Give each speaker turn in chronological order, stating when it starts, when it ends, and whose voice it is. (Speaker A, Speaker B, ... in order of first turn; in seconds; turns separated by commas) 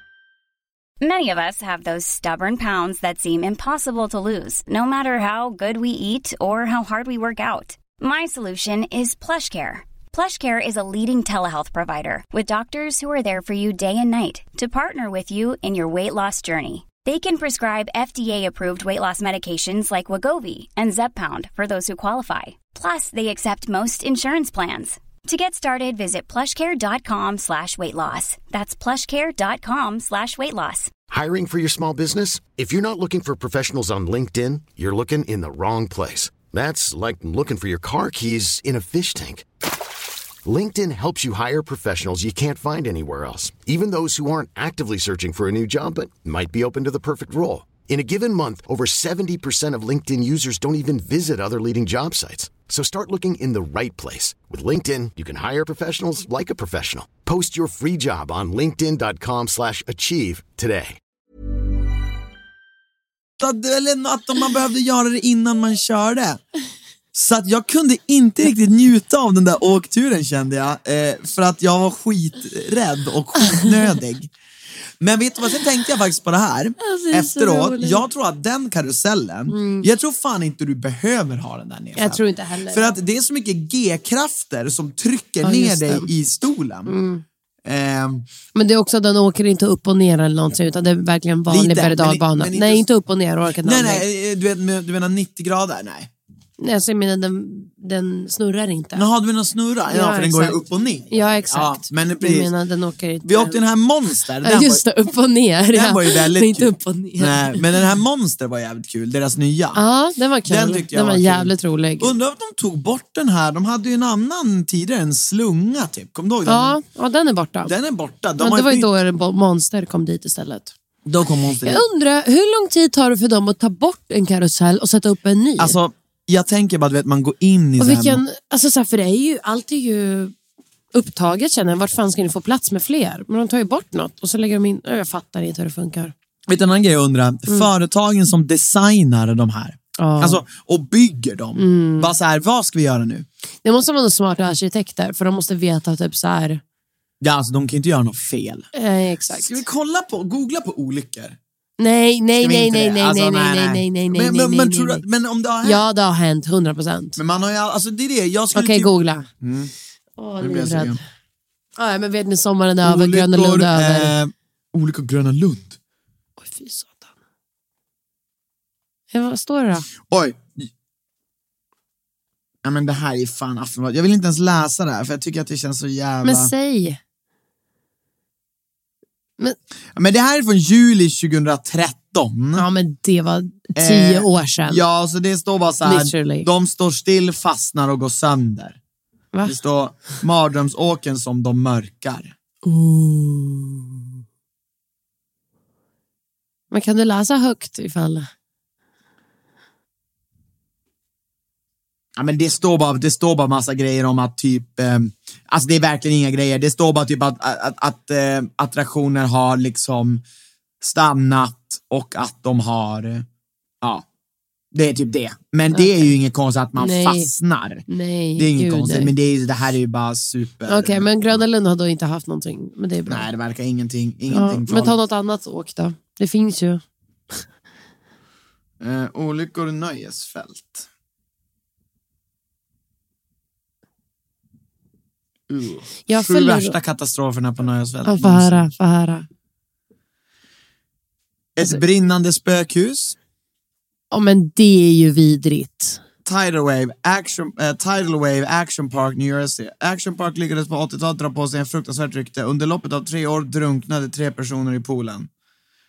Speaker A: 1.0-30.9, Speaker B: 31.1-39.5, Speaker B: 40.5-61.0, Speaker C: 63.4-66.4, Speaker C: 67.1-74.3, Speaker C: 75.0-86.9, Speaker D: 76.8-78.0, Speaker D: 79.5-79.9, Speaker D: 82.0-83.0, Speaker D: 85.4-86.1, Speaker D: 86.9-87.2, Speaker C: 87.7-88.3, Speaker D: 88.5-94.0, Speaker C: 91.5-92.8, Speaker C: 93.6-96.1, Speaker D: 96.6-99.1, Speaker C: 99.0-102.5, Speaker D: 99.9-100.6, Speaker D: 101.1-103.6, Speaker C: 103.2-104.8, Speaker D: 104.4-107.6, Speaker C: 105.7-109.8, Speaker D: 109.8-112.1, Speaker C: 110.5-116.8, Speaker D: 116.5-117.7, Speaker C: 117.7-118.9, Speaker D: 118.4-120.7, Speaker C: 121.0-121.8, Speaker D: 121.6-125.8, Speaker C: 125.6-128.2, Speaker D: 127.8-130.3, Speaker D: 130.9-136.1, Speaker C: 136.5-143.3, Speaker D: 140.0-140.4, Speaker D: 141.6-142.1, Speaker D: 143.6-146.6, Speaker C: 147.2-148.7, Speaker D: 148.7-149.6, Speaker C: 149.3-151.4, Speaker D: 151.8-155.0, Speaker C: 152.4-155.9, Speaker D: 155.6-157.2, Speaker C: 157.2-159.7, Speaker D: 158.5-159.3, Speaker D: 160.2-161.0, Speaker C: 160.4-161.0, Speaker D: 161.8-164.2, Speaker C: 162.8-165.8, Speaker D: 166.4-167.1, Speaker D: 169.1-169.9, Speaker C: 170.0-170.7, Speaker C: 172.6-176.5, Speaker D: 176.2-177.0, Speaker C: 180.0-182.7, Speaker D: 182.6-184.8, Speaker C: 183.8-188.8, Speaker D: 185.8-186.5, Speaker C: 189.4-192.3, Speaker D: 192.6-194.0, Speaker D: 196.7-198.3, Speaker C: 202.2-210.2, Speaker C: 210.8-213.3, Speaker C: 214.7-217.8, Speaker D: 215.7-216.1, Speaker D: 216.8-217.3, Speaker D: 217.9-219.1, Speaker C: 218.4-221.4, Speaker D: 220.7-223.3, Speaker C: 223.1-225.0, Speaker D: 224.3-226.8, Speaker C: 228.8-230.9, Speaker C: 235.5-238.7, Speaker D: 236.1-236.8, Speaker D: 238.1-239.3, Speaker C: 241.6-243.2, Speaker D: 244.1-246.0, Speaker C: 246.2-255.3